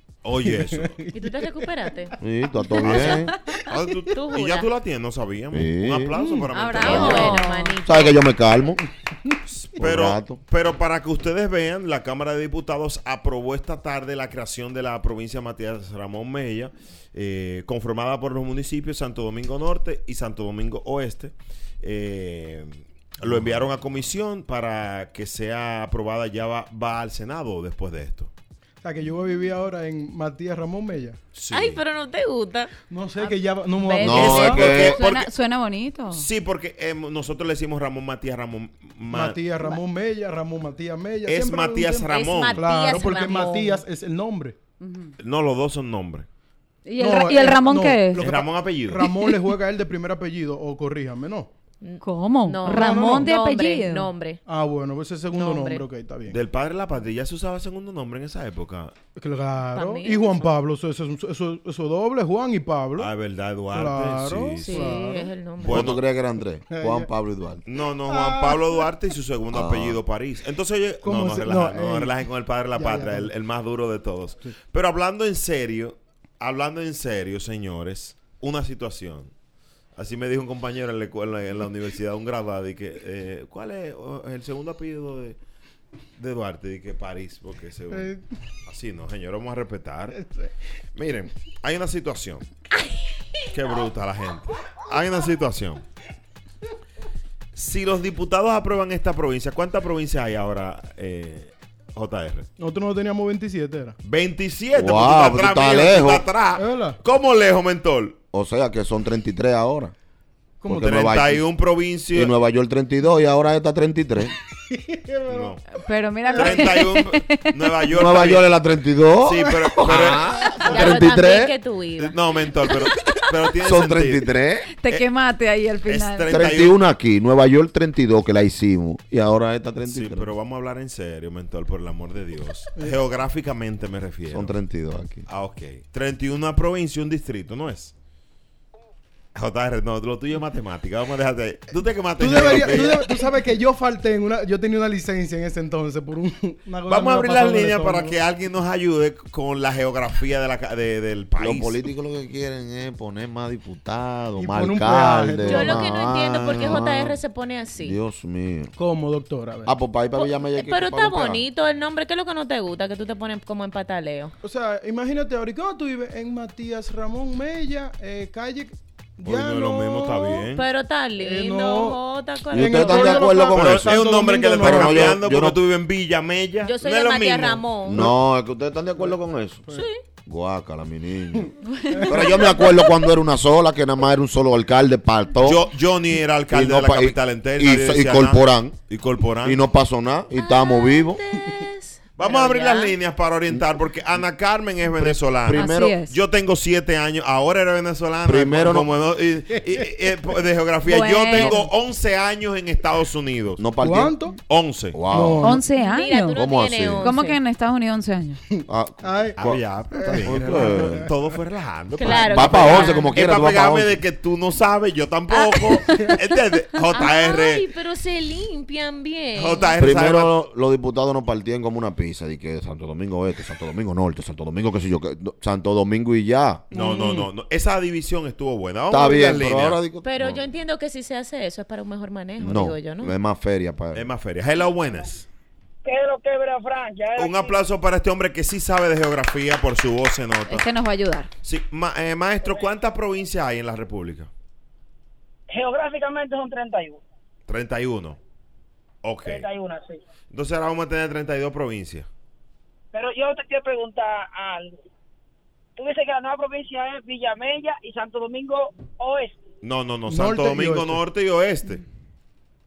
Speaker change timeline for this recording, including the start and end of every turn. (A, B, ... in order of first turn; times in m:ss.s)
0:00.2-0:01.0 A
0:00.4-0:01.9 B
0:01.1-0:02.2 C
0:02.2-0:03.3 D
0:02.8-0:03.7 B
0:02.8-0:03.2 C
0:02.8-0:07.3 A
0:04.1-0:04.7 C
0:05.5-0:06.2 D
0:06.1-0:06.5 B
0:06.5-0:07.8 E
0:06.7-0:08.3 C
0:06.8-0:08.8 D
0:09.5-0:28.3 A
0:09.8-0:10.4 D
0:23.2-0:23.6 D
0:28.8-0:31.2 B
0:31.3-0:31.8 A
0:31.5-0:34.9 C
0:32.9-0:34.8 B
0:34.0-0:35.0 D
0:34.0-0:35.3 A
0:34.8-0:36.3 E
0:36.1-0:39.4 A
0:39.1-0:44.6 B
0:41.2-0:42.6 A
0:42.1-0:43.8 C
0:44.8-0:45.1 E
0:45.2-0:46.3 A
0:46.8-0:48.2 E
0:47.0-0:51.5 B
0:48.2-0:49.1 A
0:51.8-0:54.4 C
0:52.0-0:54.1 E
0:52.6-0:53.2 B
0:54.5-0:56.4 B
0:55.3-0:55.8 C
0:56.3-0:58.9 A
0:59.2-1:03.1 B
0:59.7-1:00.5 C
1:03.0-1:05.0 A
1:03.7-1:05.3 B
1:04.6-1:05.9 C
1:05.6-1:06.0 A
1:05.6-1:07.6 D
1:06.7-1:07.1 B
1:07.7-1:19.3 A
1:08.0-1:08.9 B
1:09.5-1:10.0 D
1:11.0-1:12.2 B
1:12.7-1:13.3 B
1:20.0-1:25.4 A
1:26.2-1:28.1 A
1:27.9-1:28.2 B
1:28.6-1:30.2 A
1:30.1-1:30.5 B
1:30.9-1:32.5 A
1:33.5-1:35.8 A
1:37.5-1:42.5 A
1:42.6-1:44.0 B
1:44.0-1:48.2 A
1:44.7-1:46.3 D
1:46.5-1:47.0 B
1:48.3-1:49.9 D
1:50.6-1:51.0 B
1:50.7-1:51.4 D
1:50.7-1:52.3 A
1:52.1-1:54.3 D
1:54.7-1:55.6 B
1:55.3-1:55.6 A
1:55.7-1:57.6 E
1:56.3-1:56.8 B
1:56.4-1:58.5 A
1:57.9-2:01.5 D
1:59.2-2:00.6 A
2:00.6-2:01.0 B
2:00.6-2:02.2 C
2:02.0-2:04.3 A
2:03.6-2:04.7 D
2:04.8-2:06.4 E
2:05.8-2:06.8 A
2:06.3-2:10.3 D
2:09.8-2:14.6 A
2:14.3-2:15.3 D
2:15.3-2:17.9 A
2:19.3-2:23.2 A
2:22.2-2:28.2 B
2:26.9-2:31.8 A
2:31.4-2:37.2 D
2:34.4-2:35.9 B
2:35.4-2:38.0 C
2:37.8-2:38.7 D
2:38.8-2:39.7 B
2:39.6-2:41.4 D
2:40.2-2:44.3 C
2:44.4-2:50.5 B
2:49.2-2:50.6 A
2:50.5-2:53.3 C
2:51.2-2:52.0 B
2:52.5-2:54.0 D
2:52.5-2:55.2 B
2:53.4-2:57.9 A
2:54.6-2:55.6 D
2:56.6-2:58.1 C
2:57.8-2:59.6 D
2:59.7-3:00.0 C
3:00.2-3:01.5 D
3:01.7-3:02.0 E
3:01.9-3:02.6 B
3:02.1-3:05.7 D
3:05.4-3:09.6 A
3:06.5-3:08.8 D
3:09.4-3:11.2 D
3:10.3-3:13.0 C
3:12.2-3:23.7 A
3:14.9-3:16.0 D
3:15.5-3:16.2 E
3:18.2-3:18.9 D
3:20.8-3:21.7 E
3:21.3-3:21.6 D
3:23.6-3:24.1 D
3:23.8-3:24.4 B
3:24.5-3:25.0 A
3:24.9-3:25.6 D
3:25.1-3:25.6 B
3:25.4-3:26.4 E
3:25.8-3:27.4 C
3:26.3-3:27.1 D
3:27.0-3:28.4 E
3:28.7-3:31.1 D
3:29.0-3:31.1 B
3:29.4-3:37.6 A
3:31.9-3:33.2 C
3:32.0-3:34.0 D
3:35.3-3:36.2 C
3:36.9-3:39.8 C
3:39.3-3:40.3 A
3:39.8-3:46.6 D
3:46.7-3:47.3 B
3:46.7-3:49.8 A
3:48.9-3:50.4 D
3:50.0-3:53.1 C
3:52.4-3:54.1 D
3:53.9-3:55.3 A
3:55.8-3:57.6 F
3:57.2-4:00.6 A
4:00.5-4:01.3 E
4:01.4-4:04.3 A
4:05.5-4:07.0 F
4:07.5-4:08.2 A
4:09.0-4:09.4 A
4:09.2-4:10.0 F
4:10.3-4:12.1 A
4:12.9-4:14.8 F
4:15.8-4:19.4 F
4:19.6-4:21.8 A
4:20.0-4:21.0 B